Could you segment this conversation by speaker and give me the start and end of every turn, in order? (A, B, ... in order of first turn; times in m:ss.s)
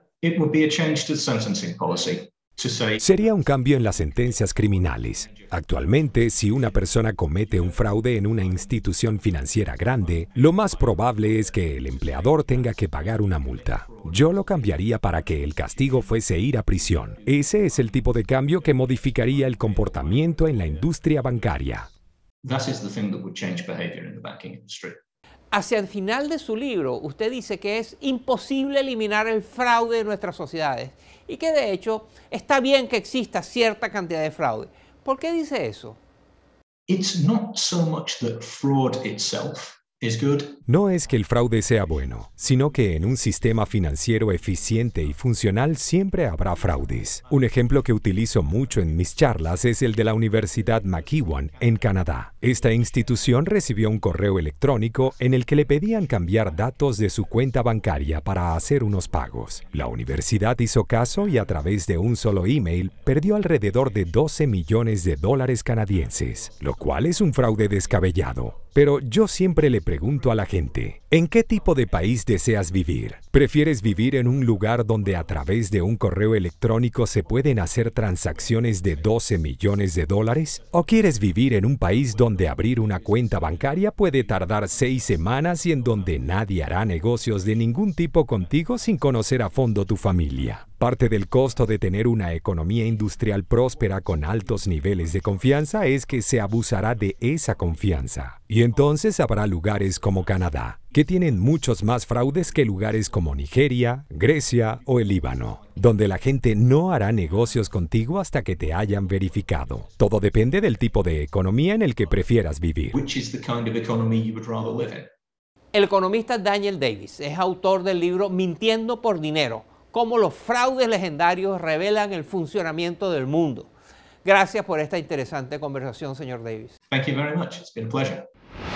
0:00.2-0:21.9 A
0:03.0-0:21.9 B
0:22.4-0:25.0 A
0:25.5-0:36.0 C
0:36.9-0:45.2 A
0:40.7-1:53.0 B
0:46.5-0:49.8 A
0:50.4-0:53.7 A
0:55.1-1:00.2 A
1:01.1-1:01.9 A
1:02.7-1:04.2 A
1:05.9-1:13.1 A
1:13.7-1:15.6 A
1:17.2-1:19.3 A
1:20.5-1:27.8 A
1:28.4-1:30.6 A
1:33.7-1:37.9 A
1:39.6-1:41.7 A
1:42.3-1:43.4 A
1:44.7-1:46.4 A
1:47.1-1:47.9 A
1:48.6-1:50.4 A
1:52.9-1:55.1 A
1:55.7-2:03.7 C
2:04.2-2:06.7 C
2:06.9-2:08.3 A